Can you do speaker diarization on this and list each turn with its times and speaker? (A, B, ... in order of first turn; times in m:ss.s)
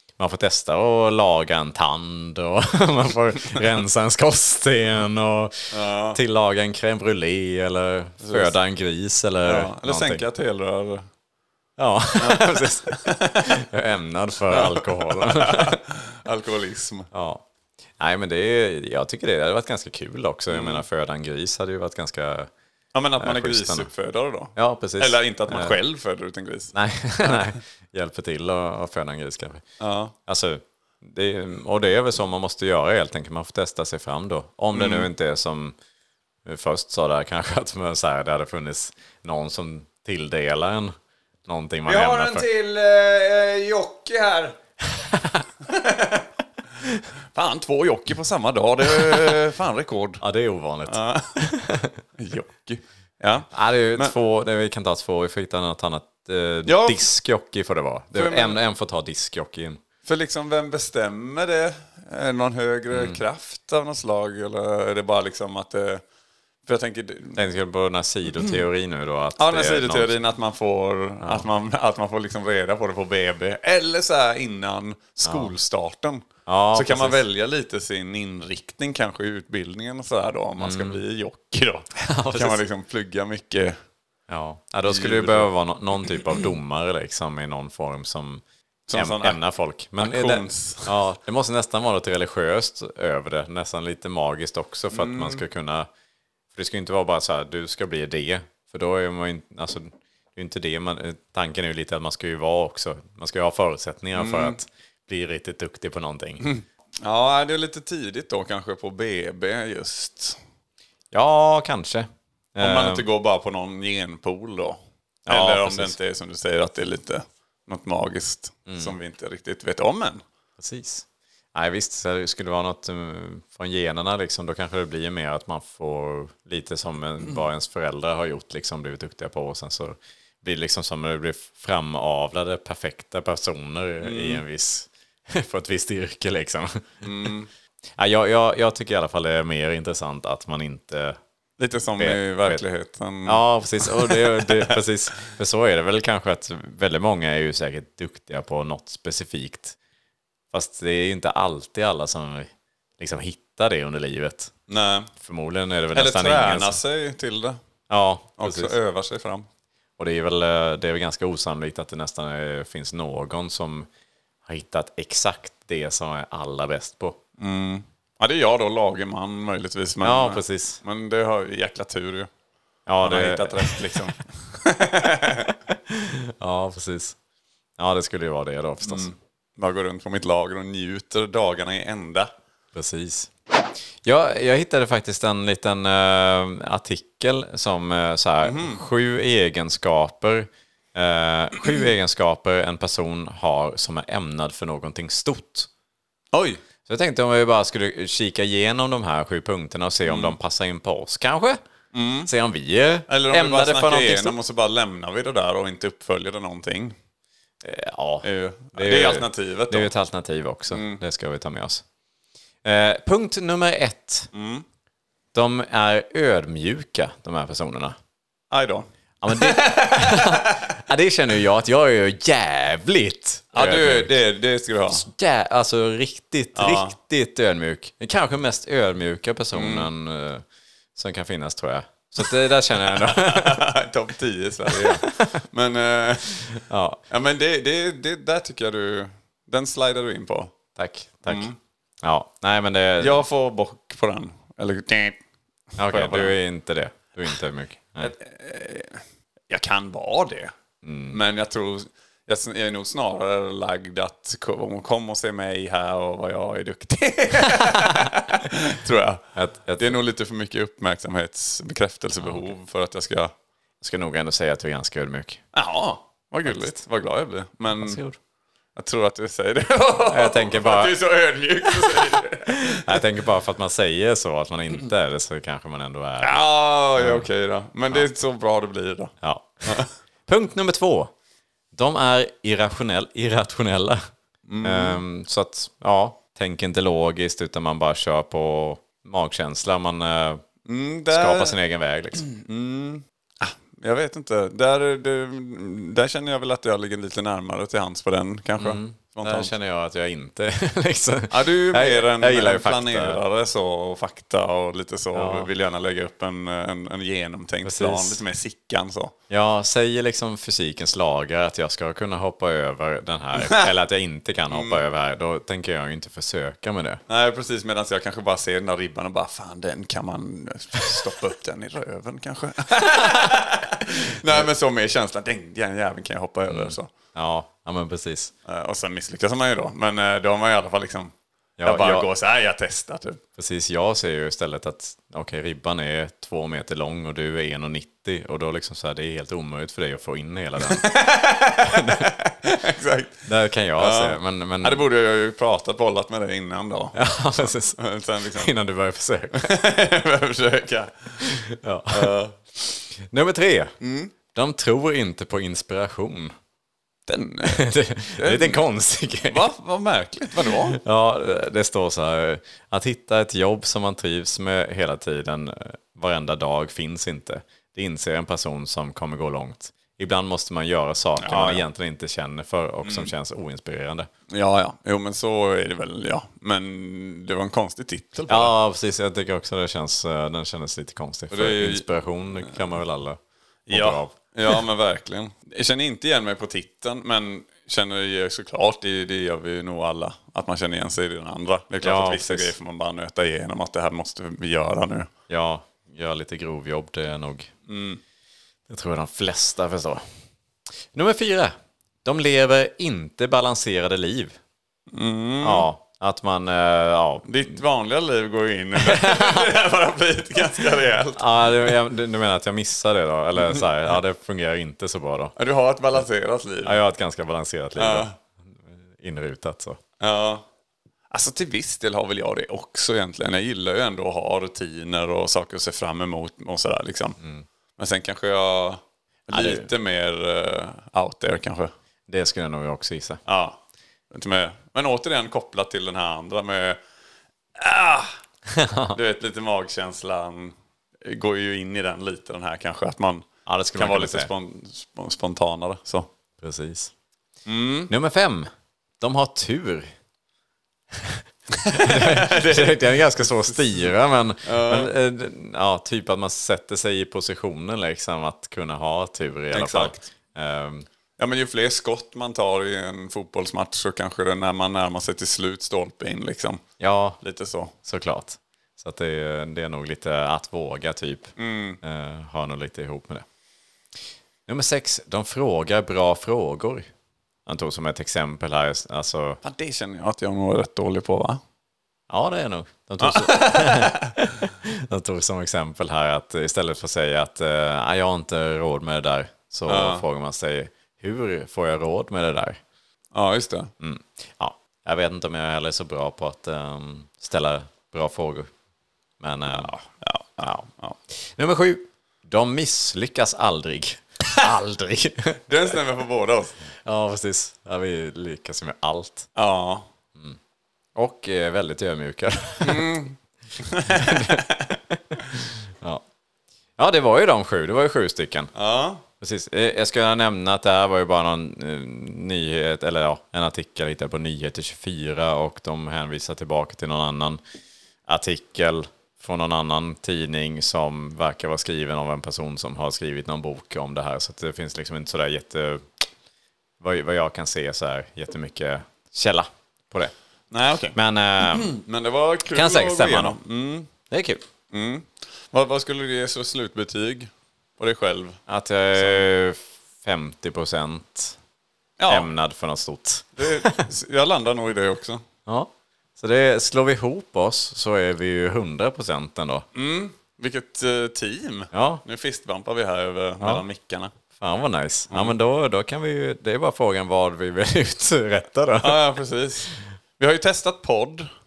0:00.2-0:10.2 A
0:05.7-0:06.2 B
0:08.2-0:08.5 B
0:09.4-0:11.1 B
0:11.8-0:15.8 A
0:12.2-0:13.6 B
0:14.5-0:17.1 B
0:17.1-0:17.4 A
0:18.0-0:22.5 A
0:20.5-0:20.8 B
0:22.9-0:27.5 B
0:23.2-0:23.9 A
0:24.5-0:25.8 A
0:26.7-0:29.6 A
0:29.8-0:30.1 B
0:30.2-0:35.7 A
0:34.7-0:35.1 B
0:36.4-0:40.9 A
0:41.4-0:42.4 A
0:41.8-0:44.6 B
0:44.9-0:45.4 A
0:45.6-0:46.3 B
0:47.3-0:50.2 B
0:50.2-0:52.0 A
0:50.9-0:51.4 B
0:52.2-0:54.1 B
0:53.5-0:59.8 A
0:56.6-0:57.0 B
0:58.1-0:58.6 B
1:00.0-1:06.0 B
1:02.9-1:03.2 A
1:06.6-1:07.4 B
1:07.3-1:10.1 A
1:09.4-1:23.8 B
1:15.2-1:15.5 A
1:16.4-1:17.2 A
1:20.6-1:21.0 A
1:22.0-1:22.6 A
1:24.3-1:28.4 A
1:24.8-1:25.5 B
1:26.0-1:26.5 B
1:28.9-1:29.4 B
1:28.9-1:35.9 A
1:30.0-1:30.9 B
1:34.9-1:35.4 B
1:36.5-1:46.5 A
1:44.1-1:44.6 B
1:46.4-1:50.4 B
1:51.1-1:53.0 A
1:52.6-2:00.2 B
1:55.2-1:56.0 A
1:58.7-1:58.9 A
2:00.6-2:17.3 A
2:14.0-2:14.4 B
2:17.0-2:17.5 B
2:18.0-2:21.2 A
2:21.6-2:24.8 B
2:22.0-2:22.6 A
2:23.2-2:29.8 A
2:30.5-2:34.5 A
2:34.7-2:35.1 B
2:35.2-2:36.8 A
2:35.9-2:37.6 B
2:37.9-2:38.7 A
2:38.4-2:39.5 B
2:40.0-2:43.9 A
2:44.4-2:47.2 A
2:47.4-2:52.3 B
2:50.0-2:50.8 A
2:52.9-2:54.0 A
2:53.0-2:55.5 B
2:55.9-2:57.2 A
2:57.8-2:59.1 A
2:58.8-3:02.3 B
3:02.7-3:03.3 A
3:04.0-3:15.7 A
3:08.4-3:08.8 B
3:16.3-3:16.6 B
3:16.8-3:21.6 A
3:20.0-3:20.4 B
3:21.9-3:22.3 B
3:22.2-3:24.4 A
3:23.1-3:26.9 B
3:27.6-3:31.8 A
3:28.2-3:29.9 B
3:30.7-3:31.0 B
3:32.6-3:34.3 A
3:34.3-3:34.6 B
3:35.3-3:38.0 A
3:38.5-3:40.6 B
3:39.2-3:44.1 A
3:43.5-3:45.0 B
3:44.9-3:50.4 A
3:46.6-3:47.0 B
3:49.5-3:49.9 B
3:50.9-3:53.6 A
3:52.8-3:56.4 B
3:54.7-3:55.4 A
3:56.5-3:57.0 A
3:57.1-4:00.6 B
4:00.8-4:01.5 A
4:01.2-4:01.6 B
4:02.0-4:03.2 A
4:03.0-4:05.2 B
4:05.8-4:08.1 A
4:05.8-4:06.3 B
4:08.0-4:10.5 B
4:10.8-4:11.2 A
4:11.1-4:19.2 B
4:19.3-4:20.0 A
4:19.8-4:23.3 B
4:22.2-4:22.5 A
4:23.8-4:25.4 A
4:25.5-4:28.0 B
4:26.4-4:26.8 A
4:27.7-4:28.2 A
4:28.8-4:33.0 B
4:30.1-4:31.0 A
4:31.8-4:36.4 A
4:36.2-4:39.1 B
4:37.0-4:37.3 A
4:39.2-4:41.1 A
4:39.6-4:39.9 B
4:41.7-4:44.0 A
4:44.5-4:45.0 B
4:44.6-4:50.4 A
4:50.6-4:51.6 B
4:51.1-4:52.2 A
4:52.2-4:59.5 B
4:58.6-5:03.2 A
5:01.3-5:09.1 B
5:05.1-5:05.5 A
5:07.6-5:08.2 A
5:09.3-5:17.0 A
5:13.4-5:13.7 B
5:14.5-5:14.8 B
5:17.1-5:26.9 B
5:26.5-5:28.3 A
5:28.4-5:31.1 B
5:31.6-5:32.0 A
5:31.6-5:33.2 B
5:33.4-5:40.8 A
5:40.6-5:43.2 B
5:41.6-5:42.1 A
5:43.2-5:44.8 A
5:43.8-5:48.5 B
5:46.9-5:47.8 A
5:48.3-5:49.5 A
5:49.3-5:51.2 B
5:51.2-5:52.1 A
5:51.9-5:52.4 B
5:53.0-5:53.7 A
5:53.8-5:54.1 B
5:54.3-5:56.3 A
5:57.1-5:58.6 B
5:57.4-5:59.4 A
5:59.2-6:00.8 B
6:00.7-6:14.1 A
6:11.2-6:11.6 B
6:12.8-6:13.1 B
6:14.3-6:18.5 B
6:18.3-6:24.6 A
6:21.3-6:21.9 B
6:23.7-6:35.1 B
6:31.8-6:32.5 A
6:35.3-6:37.5 A
6:37.7-6:38.0 B
6:38.7-6:40.0 A
6:40.9-6:44.4 A
6:44.9-6:45.7 B
6:45.4-6:47.5 A
6:47.2-6:51.7 B
6:48.8-6:49.5 A
6:51.1-6:55.3 A
6:55.4-6:56.8 B
6:56.6-6:59.8 A
6:57.8-6:58.1 B
7:00.0-7:00.4 B
7:01.1-7:07.2 B
7:07.2-7:07.4 A
7:07.8-7:11.7 B
7:09.3-7:09.7 A
7:12.1-7:13.2 A
7:13.2-7:16.8 B
7:17.6-7:18.1 B
7:18.5-7:19.0 A
7:18.9-7:26.1 B
7:23.4-7:24.3 A
7:26.4-7:26.9 A
7:27.4-7:27.9 B
7:27.9-7:29.9 A
7:31.5-7:33.8 B
7:31.7-7:40.8 A
7:34.4-7:34.9 B
7:39.5-7:40.0 B
7:41.2-7:46.6 B
7:46.8-7:47.2 A
7:47.2-7:47.7 B
7:47.8-7:53.2 A
7:51.4-7:51.8 B
7:54.5-7:56.9 A
7:57.4-7:59.4 A
7:59.4-8:01.4 B
8:02.1-8:12.6 A
8:03.0-8:04.1 B
8:09.7-8:10.0 B
8:13.1-8:13.7 B
8:13.8-8:18.5 A
8:19.2-8:19.7 A
8:19.5-8:21.0 B
8:20.4-8:20.7 A
8:21.2-8:25.5 A
8:25.5-8:26.6 B
8:26.8-8:29.3 A
8:29.3-8:29.9 B
8:31.0-8:32.9 A
8:32.6-8:34.7 B
8:33.8-8:36.0 A
8:36.8-8:38.5 A
8:38.5-8:39.0 B
8:39.2-8:47.4 A
8:48.1-8:55.8 A
8:56.8-9:00.1 A
9:00.5-9:03.9 B
9:00.9-9:01.7 A
9:02.5-9:03.4 A
9:04.1-9:04.4 A
9:04.7-9:08.4 B
9:08.5-9:11.4 A
9:09.0-9:09.2 B
9:12.0-9:12.3 B
9:12.1-9:13.9 A
9:13.4-9:15.2 B
9:15.4-9:19.6 A
9:19.7-9:24.1 B
9:21.7-9:22.0 A
9:24.4-9:29.0 A
9:25.1-9:25.3 B
9:28.8-9:31.3 B